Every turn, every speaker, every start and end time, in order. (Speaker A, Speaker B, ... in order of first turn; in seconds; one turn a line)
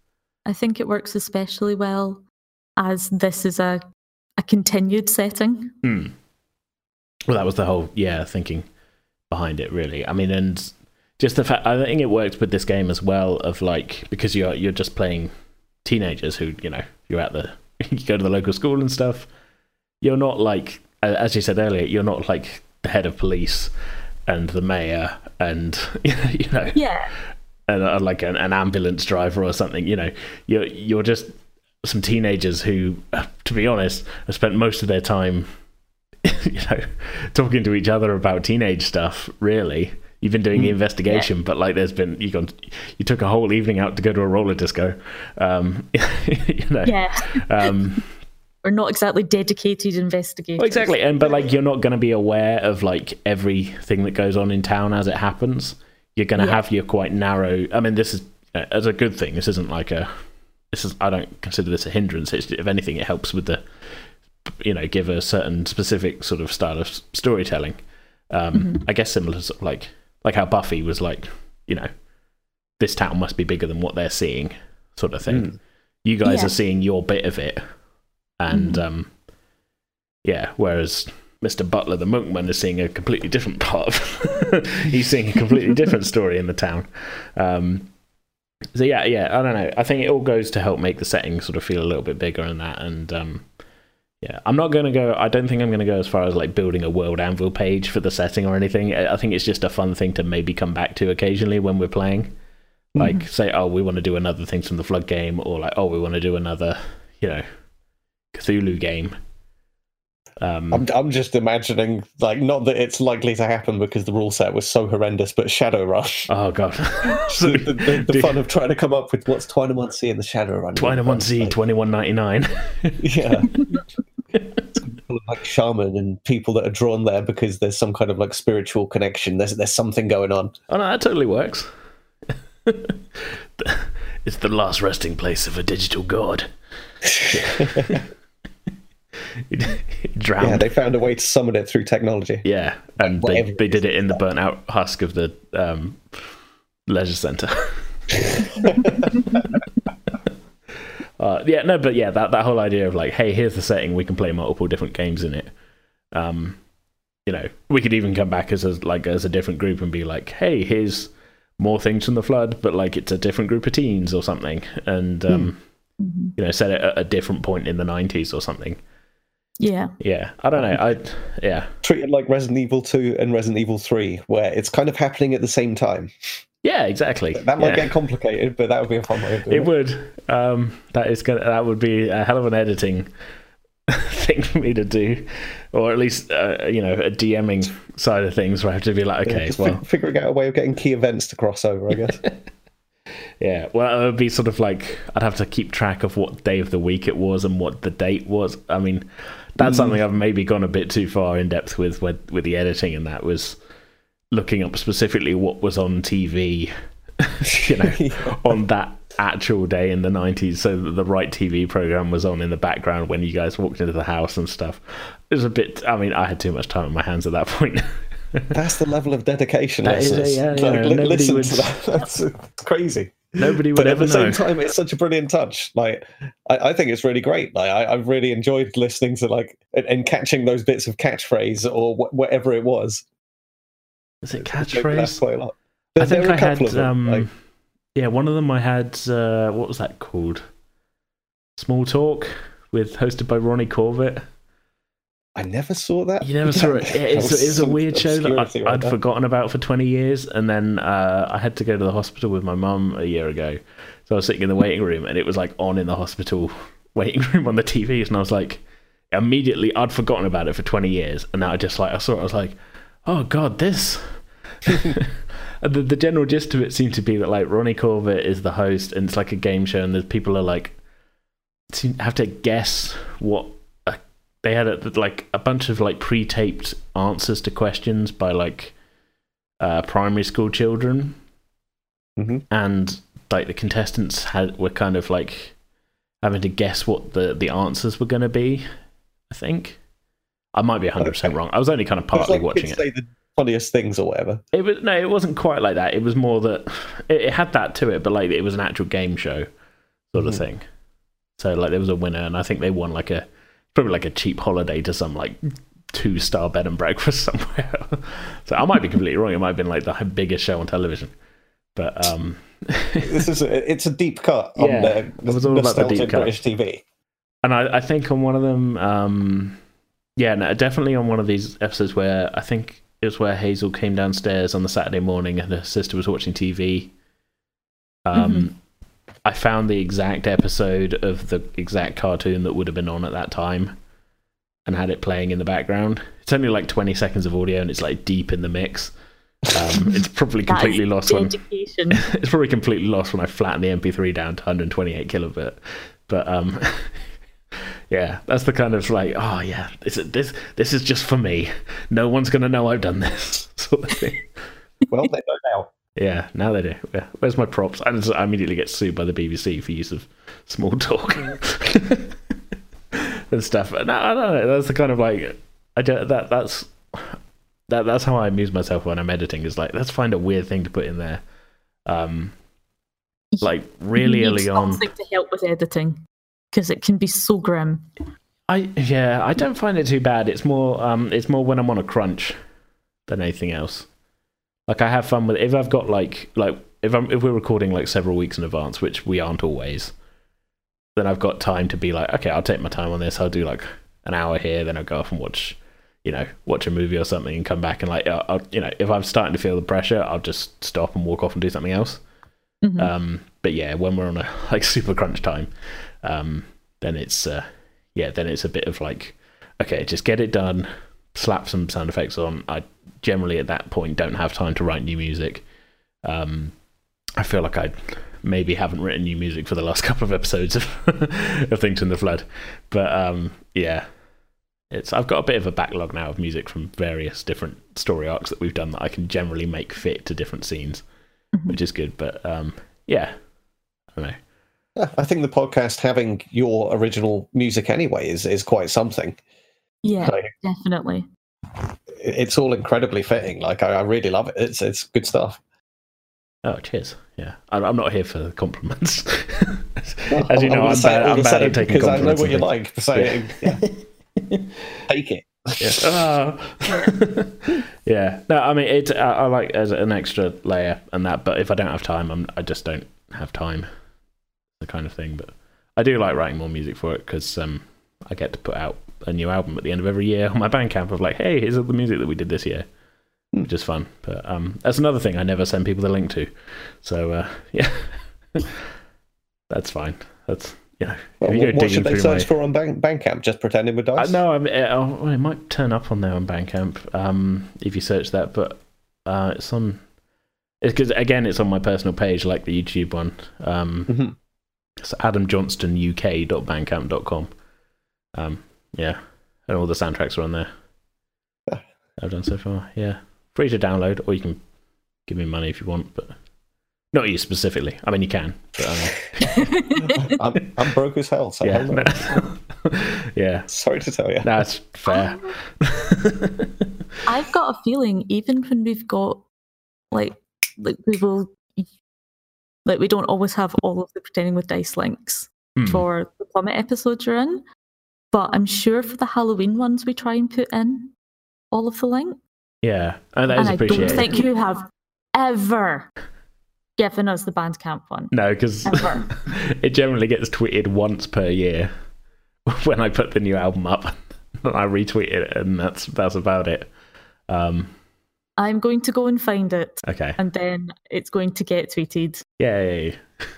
Speaker A: 0.5-2.2
Speaker A: 2.8-3.8
Speaker A: 4.4-5.8
Speaker B: 5.8-6.1
Speaker B: 7.3-8.7
Speaker B: 9.3-15.3
Speaker B: 15.8-19.3
Speaker B: 20.0-23.7
Speaker B: 24.3-26.8
Speaker A: 26.7-27.1
Speaker B: 27.7-35.6
Speaker B: 36.2-48.1
Speaker A: 46.8-47.7
Speaker A: 48.6-51.4
Speaker B: 50.6-72.0
Speaker A: 56.4-56.6
Speaker A: 68.5-68.8
Speaker B: 72.8-79.2
Speaker C: 75.3-75.6
Speaker A: 76.2-76.5
Speaker A: 78.5-78.8
Speaker B: 80.2-87.9
Speaker B: 88.7-93.5
Speaker B: 94.2-102.3
Speaker C: 103.0-103.2
Speaker B: 103.0-107.5
Speaker B: 108.3-109.1
Speaker B: 110.4-110.8
Speaker C: 110.7-116.3
Speaker B: 116.3-118.3
Speaker C: 117.2-121.5
Speaker B: 120.8-123.6
Speaker C: 123.0-123.5
Speaker B: 124.3-124.7
Speaker C: 124.8-130.5
Speaker B: 130.7-131.7
Speaker B: 132.6-136.5
Speaker C: 137.1-138.0
Speaker B: 137.3-138.0
Speaker B: 139.5-140.7
Speaker C: 140.4-142.4
Speaker B: 142.4-149.1
Speaker C: 143.0-144.2
Speaker C: 148.6-149.1
Speaker A: 149.1-149.4
Speaker B: 151.2-155.5
Speaker B: 156.1-156.6
Speaker B: 157.2-168.8
Speaker A: 166.0-166.3
Speaker A: 169.6-169.9
Speaker B: 170.0-171.7
Speaker C: 171.8-176.2
Speaker B: 176.6-177.9
Speaker C: 177.3-179.7
Speaker B: 179.5-183.1
Speaker B: 183.9-189.8
Speaker C: 189.2-192.2
Speaker B: 193.4-203.6
Speaker C: 199.6-200.0
Speaker B: 204.3-218.6
Speaker C: 207.5-208.6
Speaker C: 218.5-233.0
Speaker B: 219.8-221.9
Speaker B: 223.4-224.6
Speaker B: 234.2-235.2
Speaker C: 234.4-237.3
Speaker B: 236.0-237.3
Speaker B: 237.9-240.4
Speaker B: 241.6-244.2
Speaker C: 245.3-249.0
Speaker B: 246.2-270.8
Speaker B: 271.7-278.8
Speaker B: 279.6-281.2
Speaker C: 282.2-282.4
Speaker B: 282.5-285.6
Speaker B: 286.2-288.7
Speaker B: 289.3-289.8
Speaker B: 290.5-292.8
Speaker C: 291.0-291.3
Speaker C: 292.1-294.4
Speaker B: 294.5-299.5
Speaker B: 300.1-300.6
Speaker C: 300.2-300.4
Speaker B: 301.4-305.4
Speaker B: 305.9-311.1
Speaker B: 311.7-313.3
Speaker C: 313.0-316.8
Speaker B: 314.6-316.3
Speaker B: 317.4-319.6
Speaker B: 320.2-326.9
Speaker B: 328.1-328.6
Speaker A: 328.1-328.5
Speaker B: 329.2-333.7
Speaker B: 334.6-341.4
Speaker C: 339.7-340.0
Speaker A: 340.5-342.0
Speaker B: 341.9-347.1
Speaker B: 347.9-354.4
Speaker C: 354.9-355.7
Speaker B: 355.9-362.2
Speaker B: 362.9-371.2
Speaker B: 371.9-372.4
Speaker A: 373.3-377.9
Speaker B: 373.4-374.9
Speaker B: 378.5-382.4
Speaker B: 383.1-383.9
Speaker B: 384.7-389.9
Speaker B: 390.9-402.0
Speaker A: 402.6-402.9
Speaker B: 402.8-405.5
Speaker B: 406.0-415.4
Speaker B: 416.0-416.5
Speaker B: 417.2-423.9
Speaker B: 424.7-430.9
Speaker B: 431.5-433.1
Speaker C: 434.8-439.2
Speaker A: 439.8-441.1
Speaker C: 440.0-440.3
Speaker C: 441.9-445.4
Speaker B: 446.4-454.7
Speaker C: 450.1-453.6
Speaker C: 454.9-455.9
Speaker B: 455.6-463.7
Speaker B: 464.6-472.7
Speaker B: 473.4-478.7
Speaker B: 479.5-482.3
Speaker C: 481.2-484.2
Speaker B: 484.0-489.9
Speaker B: 490.6-494.0
Speaker C: 493.9-494.1
Speaker B: 494.8-497.3
Speaker B: 498.1-500.5
Speaker B: 502.0-504.4
Speaker B: 505.1-506.2
Speaker B: 506.9-509.6
Speaker A: 509.2-510.1
Speaker C: 510.0-511.9
Speaker B: 511.4-513.5
Speaker C: 513.5-514.3
Speaker B: 514.2-516.7
Speaker A: 514.9-515.3
Speaker A: 517.0-519.2
Speaker A: 519.9-521.6
Speaker A: 522.6-527.4
Speaker B: 525.5-525.9
Speaker A: 528.1-530.9
Speaker A: 531.5-532.2
Speaker B: 532.6-534.1
Speaker A: 533.4-535.9
Speaker A: 536.8-538.1
Speaker B: 538.1-541.7
Speaker A: 538.6-539.1
Speaker B: 542.5-546.7
Speaker B: 547.3-547.8
Speaker A: 548.4-552.2
Speaker B: 549.8-550.2
Speaker B: 552.4-553.0